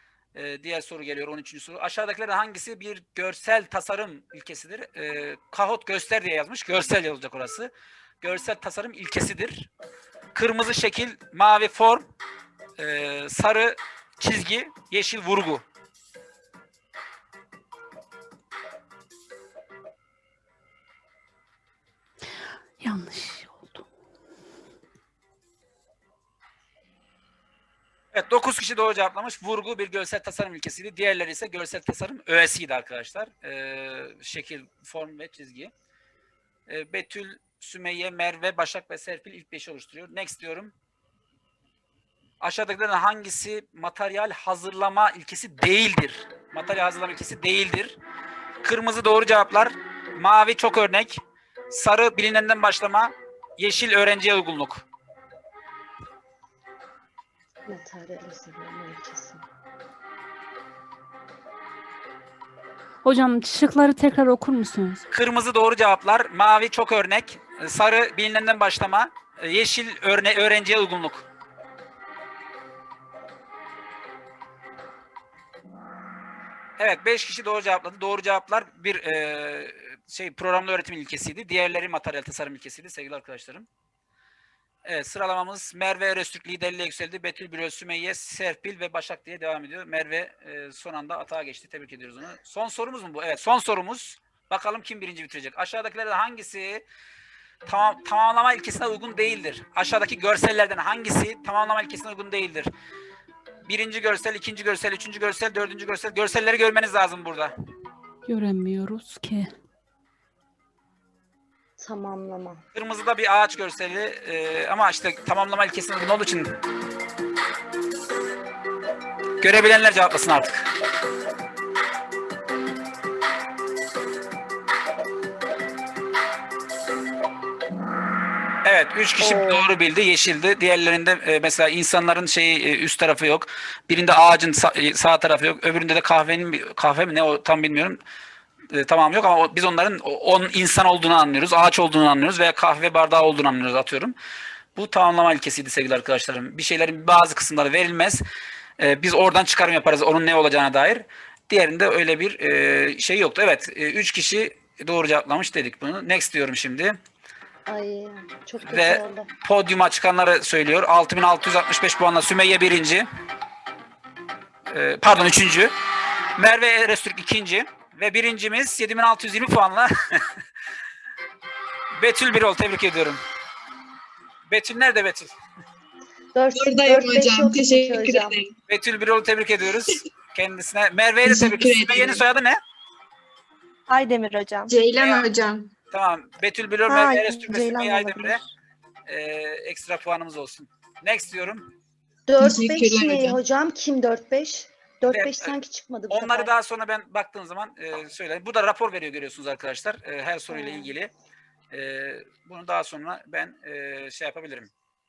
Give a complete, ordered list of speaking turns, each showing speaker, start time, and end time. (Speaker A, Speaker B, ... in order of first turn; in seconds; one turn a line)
Speaker A: 0.3-7.7
Speaker A: 8.2-9.7
Speaker A: 10.3-12.1
Speaker A: 12.8-15.6
Speaker B: 22.8-23.9
Speaker A: 28.1-35.7
Speaker A: 36.7-40.7
Speaker A: 42.4-48.0
Speaker A: 48.6-54.8
Speaker C: 57.7-59.4
Speaker B: 63.0-65.0
Speaker A: 65.1-71.3
Speaker A: 76.8-83.7
Speaker A: 84.8-96.8
Speaker A: 97.7-102.7
Speaker A: 103.7-107.5
Speaker B: 108.3-109.5
Speaker C: 111.8-112.6
Speaker A: 112.7-116.5
Speaker A: 119.4-120.7
Speaker A: 128.6-138.0
Speaker C: 129.2-129.7
Speaker A: 138.7-144.2
Speaker A: 144.8-148.2
Speaker A: 148.8-157.0
Speaker C: 157.7-159.3
Speaker A: 158.6-163.1
Speaker A: 164.7-165.7
Speaker A: 166.4-170.4
Speaker A: 172.0-173.2
Speaker A: 174.5-175.3
Speaker C: 176.3-178.4
Speaker D: 176.5-178.5
Speaker A: 178.7-182.6
Speaker D: 181.2-182.2
Speaker E: 183.9-184.7
Speaker D: 184.7-185.7
Speaker A: 185.0-185.3
Speaker A: 185.9-188.4
Speaker E: 186.9-188.5
Speaker A: 189.1-191.7
Speaker C: 192.3-196.5
Speaker D: 192.4-193.4
Speaker A: 195.1-195.6
Speaker A: 196.1-201.1
Speaker C: 200.5-200.9
Speaker A: 201.7-204.7